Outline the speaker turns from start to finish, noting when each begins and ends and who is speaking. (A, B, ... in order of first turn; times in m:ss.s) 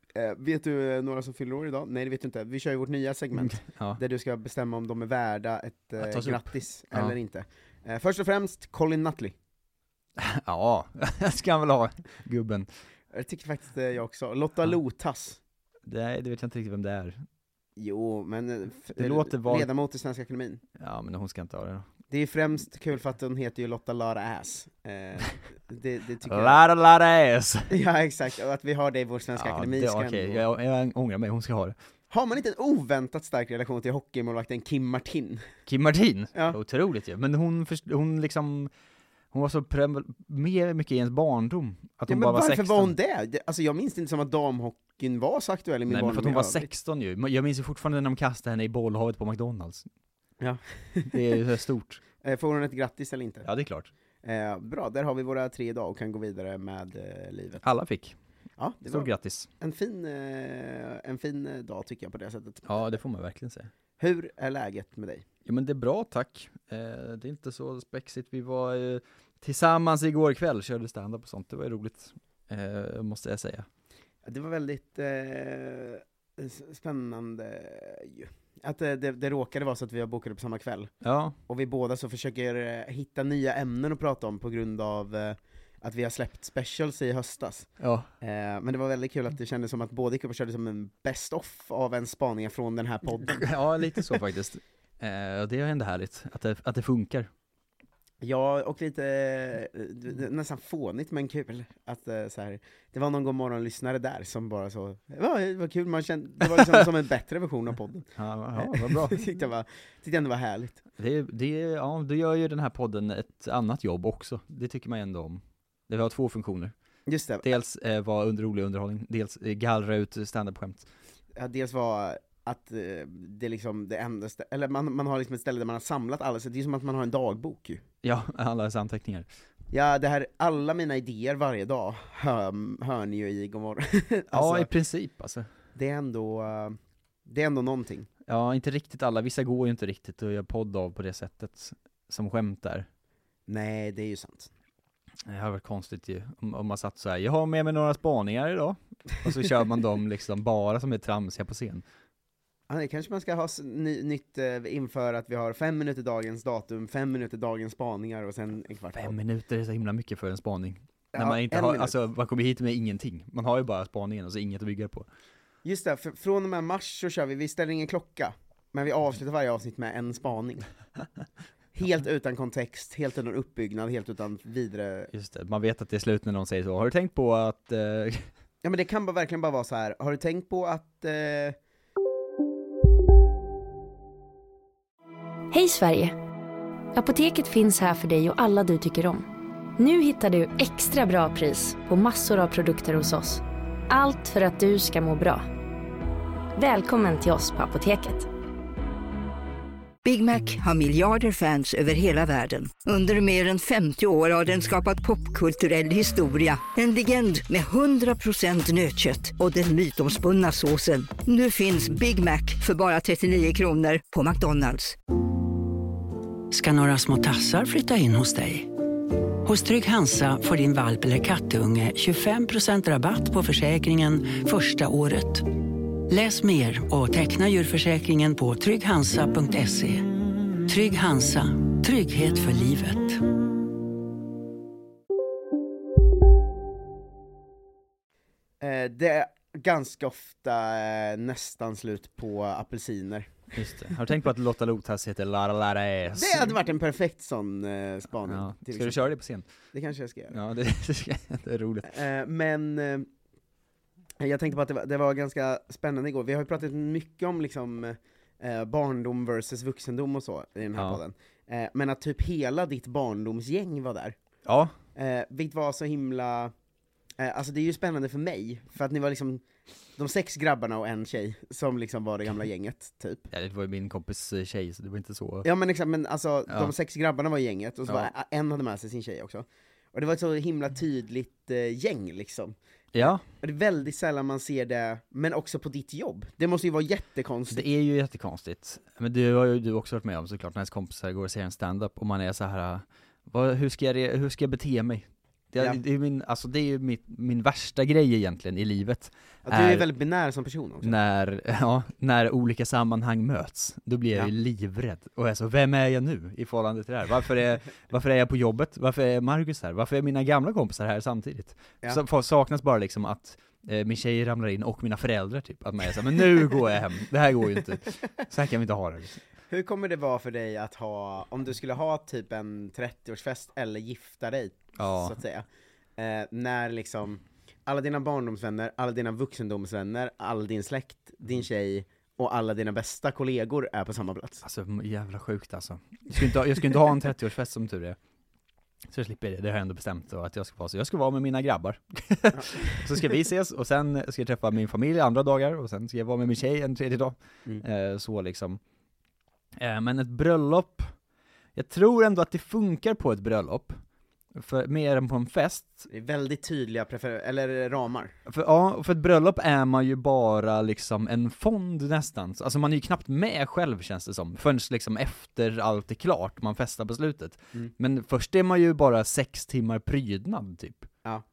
0:00.1-0:09.3 A
0:03.3-0:04.0 B
0:06.0-0:07.2 B
0:10.2-0:12.7 B
0:13.1-0:15.4 A
0:15.8-0:17.2 B
0:17.8-0:20.6 A
0:19.0-0:19.7 B
0:20.8-0:21.9 B
0:22.1-0:26.6 A
0:26.2-0:27.7 B
0:27.7-0:30.4 A
0:29.4-0:31.8 B
0:32.1-0:35.4 A
0:35.6-0:38.7 B
0:39.3-0:42.9 B
0:42.1-0:46.7 A
0:45.9-0:49.9 B
0:50.4-0:51.1 A
0:51.1-0:52.0 B
0:52.2-0:53.4 A
0:53.4-0:53.9 B
0:54.2-0:57.6 A
0:57.6-0:58.2 B
0:58.6-1:03.0 A
0:58.9-0:59.5 B
1:02.6-1:03.7 B
1:04.0-1:05.2 A
1:05.4-1:13.7 B
1:14.2-1:20.9 A
1:21.0-1:21.4 B
1:21.5-1:27.7 A
1:27.8-1:28.1 B
1:28.2-1:34.0 A
1:33.2-1:37.3 B
1:38.2-1:48.0 A
1:48.2-1:49.2 B
1:48.6-1:50.8 A
1:51.0-1:56.7 B
1:57.1-1:57.4 A
1:57.4-2:00.9 B
2:01.3-2:07.8 A
2:08.0-2:09.3 B
2:09.7-2:14.7 A
2:14.3-2:15.5 B
2:15.7-2:18.1 A
2:18.3-2:22.9 B
2:23.5-2:24.5 A
2:25.3-2:31.8 B
2:32.7-2:39.1 A
2:38.9-2:45.1 B
2:41.1-2:41.9 A
2:45.6-2:50.7 A
2:51.7-2:55.1 A
2:55.1-2:58.3 B
2:58.6-3:01.6 A
3:05.5-3:06.2 C
3:06.9-3:15.4 C
3:16.6-3:18.3 C
3:20.0-3:35.0 D
3:36.5-3:38.7 E
3:39.4-3:45.5 E
3:46.1-3:50.0 E
3:50.7-3:53.2 E
3:58.6-4:03.4 A
4:03.5-4:06.6 B
4:06.2-4:09.0 A
4:08.2-4:09.5 B
4:09.7-4:10.3 A
4:10.3-4:11.9 B
4:11.8-4:13.1 A
4:14.2-4:24.2 A
4:24.4-4:24.7 B
4:25.0-4:26.5 A
4:27.2-4:29.4 A
4:30.0-4:33.2 A
4:33.3-4:35.5 B
4:35.4-4:47.6 A
4:37.8-4:38.1 B
4:42.9-4:43.2 B
4:47.5-4:59.9 B
4:59.4-5:01.0 A
5:00.8-5:19.2 B
5:19.5-5:25.4 A
5:24.8-5:25.2 B
5:26.0-5:34.4 A
5:34.4-5:38.0 B
5:38.9-5:48.6 B
5:42.3-5:42.8 A
5:49.6-5:50.9 B
5:51.5-5:53.8 B
5:54.3-5:55.9 B
5:55.9-5:58.1 A
5:58.2-6:10.9 B